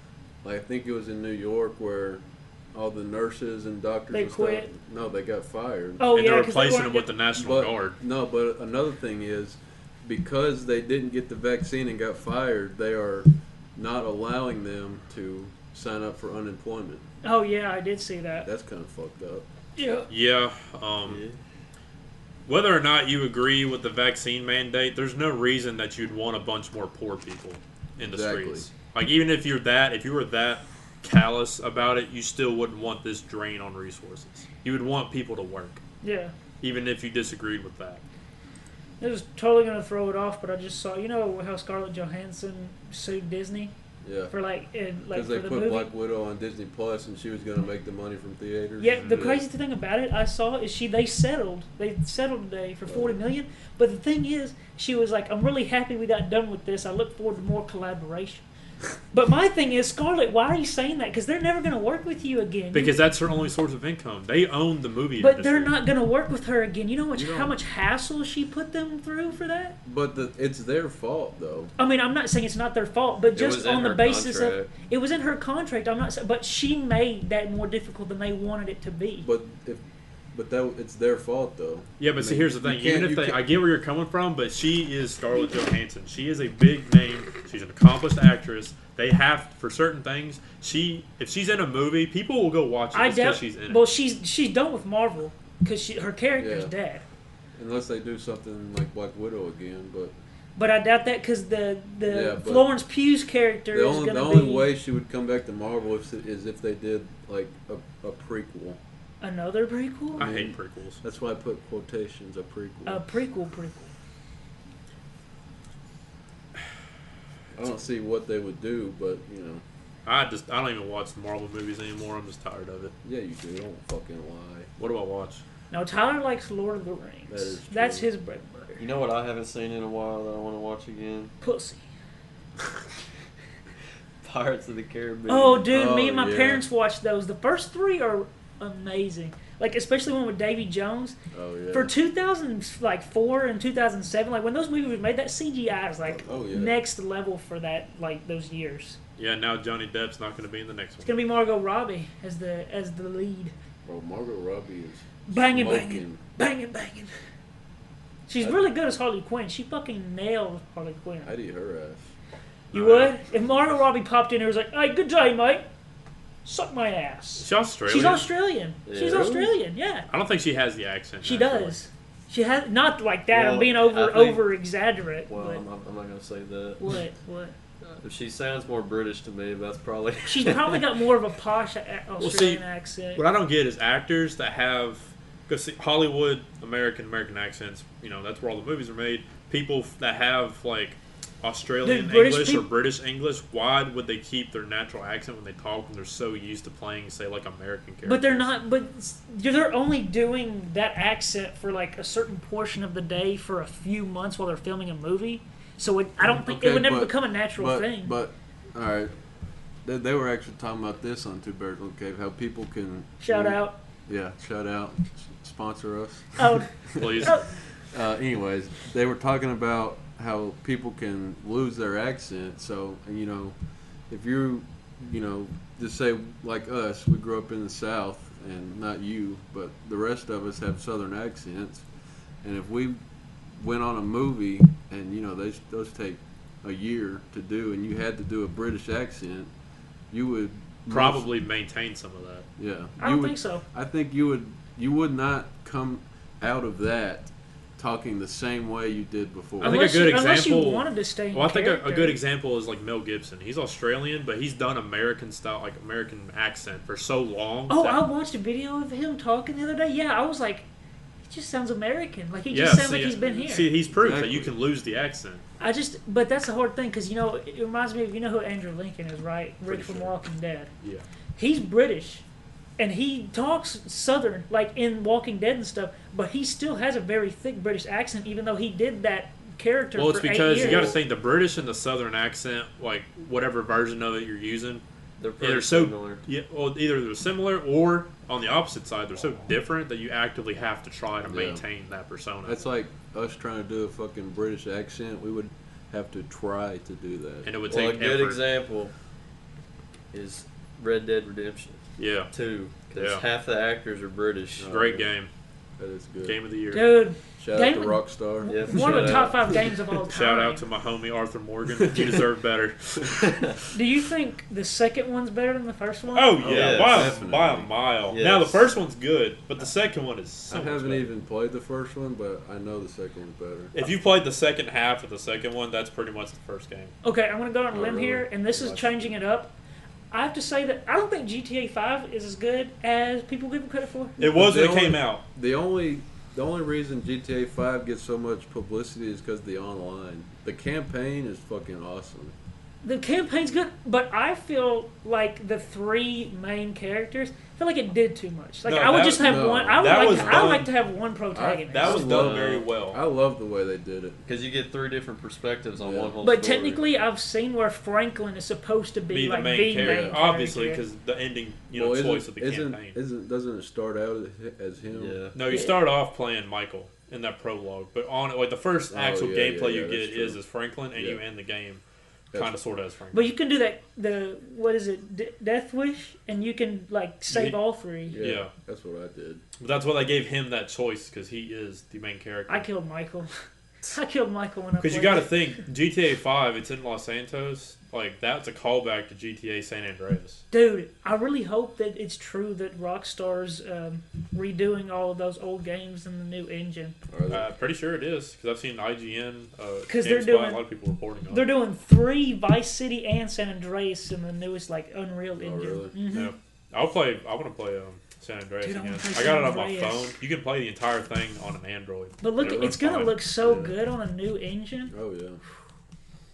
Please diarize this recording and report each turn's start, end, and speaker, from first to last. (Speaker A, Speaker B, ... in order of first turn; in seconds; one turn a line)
Speaker A: 0.4-6.1
Speaker B: 4.1-4.7
Speaker B: 6.0-7.1
Speaker C: 6.1-8.0
Speaker A: 7.3-17.1
Speaker B: 17.2-18.5
Speaker A: 18.4-19.5
Speaker B: 19.8-20.1
Speaker C: 20.1-21.2
Speaker D: 21.1-21.4
Speaker C: 22.5-35.8
Speaker A: 28.0-28.7
Speaker B: 36.0-36.3
Speaker C: 36.6-38.0
Speaker B: 39.0-43.7
Speaker A: 44.0-44.3
Speaker B: 44.3-45.9
Speaker A: 45.1-49.4
Speaker B: 48.8-58.4
Speaker A: 52.9-53.2
Speaker B: 59.1-63.0
Speaker C: 62.7-65.7
Speaker B: 65.2-69.8
Speaker A: 67.1-67.7
Speaker A: 69.8-71.7
Speaker B: 71.8-79.3
Speaker D: 73.3-74.7
Speaker A: 79.2-83.4
Speaker C: 82.0-93.8
Speaker B: 92.9-97.0
Speaker A: 96.4-96.7
Speaker A: 97.5-100.2
Speaker B: 100.6-104.7
Speaker A: 102.1-102.7
Speaker A: 103.7-108.8
Speaker B: 109.2-110.3
Speaker C: 110.1-111.0
Speaker A: 110.2-113.0
Speaker B: 112.8-113.9
Speaker A: 117.5-119.6
Speaker C: 120.1-123.0
Speaker A: 123.0-124.7
Speaker C: 124.8-125.4
Speaker B: 125.7-128.8
Speaker A: 127.3-128.1
Speaker D: 128.8-131.3
Speaker B: 131.4-131.9
Speaker D: 134.2-135.7
Speaker B: 135.3-141.2
Speaker A: 135.7-136.7
Speaker A: 141.3-141.9
Speaker B: 141.7-149.0
Speaker A: 146.1-146.8
Speaker C: 149.2-151.1
Speaker B: 151.0-153.5
Speaker A: 153.8-156.2
Speaker B: 155.3-157.1
Speaker B: 158.3-161.3
Speaker A: 161.2-162.1
Speaker C: 162.7-163.2
Speaker B: 162.7-165.7
Speaker A: 163.3-163.7
Speaker B: 166.4-170.1
Speaker C: 167.4-168.2
Speaker D: 168.9-169.5
Speaker C: 170.1-171.8
Speaker B: 171.2-175.6
Speaker D: 173.3-174.4
Speaker D: 175.3-177.0
Speaker B: 176.8-177.6
Speaker D: 177.8-181.0
Speaker B: 180.3-183.2
Speaker C: 182.2-198.5
Speaker B: 191.8-192.7
Speaker B: 198.0-208.2
Speaker A: 206.2-231.9
Speaker B: 213.2-213.8
Speaker B: 216.4-217.6
Speaker C: 217.0-217.4
Speaker A: 232.4-239.5
Speaker A: 240.1-241.3
Speaker C: 240.9-242.5
Speaker A: 242.6-249.8
Speaker B: 243.0-243.6
Speaker C: 249.6-258.0
Speaker B: 249.6-252.2
Speaker B: 257.7-260.7
Speaker B: 261.3-263.7
Speaker C: 262.5-265.4
Speaker A: 263.9-264.5
Speaker B: 265.6-270.7
Speaker A: 269.7-270.1
Speaker C: 270.8-271.1
Speaker B: 271.4-272.2
Speaker B: 272.8-281.0
Speaker C: 279.9-284.8
Speaker D: 280.5-281.0
Speaker D: 285.2-286.3
Speaker C: 285.4-292.6
Speaker A: 291.3-291.6
Speaker A: 292.4-297.5
Speaker C: 297.4-298.4
Speaker D: 297.7-298.9
Speaker D: 300.1-304.8
Speaker C: 302.0-302.3
Speaker C: 302.9-303.2
Speaker A: 304.6-305.1
Speaker C: 304.7-305.3
Speaker A: 305.8-306.4
Speaker C: 306.2-306.8
Speaker B: 306.7-310.6
Speaker A: 307.4-309.3
Speaker D: 308.4-309.8
Speaker C: 310.1-313.5
Speaker B: 313.7-316.4
Speaker C: 316.1-321.1
Speaker A: 316.4-317.7
Speaker D: 316.4-317.3
Speaker D: 318.1-318.6
Speaker A: 320.5-323.7
Speaker C: 323.7-326.9
Speaker B: 327.0-329.5
Speaker A: 327.7-329.1
Speaker B: 330.1-334.2
Speaker C: 334.2-335.2
Speaker A: 334.2-342.4
Speaker B: 342.8-352.1
Speaker C: 348.6-350.7
Speaker A: 349.2-350.6
Speaker A: 351.3-354.2
Speaker C: 351.7-353.0
Speaker D: 352.1-352.6
Speaker D: 354.2-356.8
Speaker A: 355.8-356.2
Speaker B: 356.2-360.9
Speaker C: 359.1-363.0
Speaker A: 359.8-360.2
Speaker A: 361.7-365.2
Speaker D: 364.9-365.4
Speaker C: 365.3-371.8
Speaker B: 365.5-365.8
Speaker A: 368.9-370.4
Speaker A: 370.9-371.2
Speaker C: 372.3-373.3
Speaker B: 373.1-378.2
Speaker C: 377.3-377.6
Speaker A: 378.1-379.4
Speaker C: 378.2-378.5
Speaker C: 379.6-382.7
Speaker B: 382.5-385.4
Speaker C: 384.8-390.4
Speaker B: 390.5-397.0
Speaker A: 397.1-397.5
Speaker C: 397.3-401.5
Speaker B: 399.9-400.7
Speaker B: 401.3-406.3
Speaker A: 405.4-406.0
Speaker C: 406.1-413.2
Speaker B: 408.6-410.2
Speaker B: 412.2-414.9
Speaker A: 412.4-412.8
Speaker A: 413.4-413.8
Speaker A: 414.9-415.4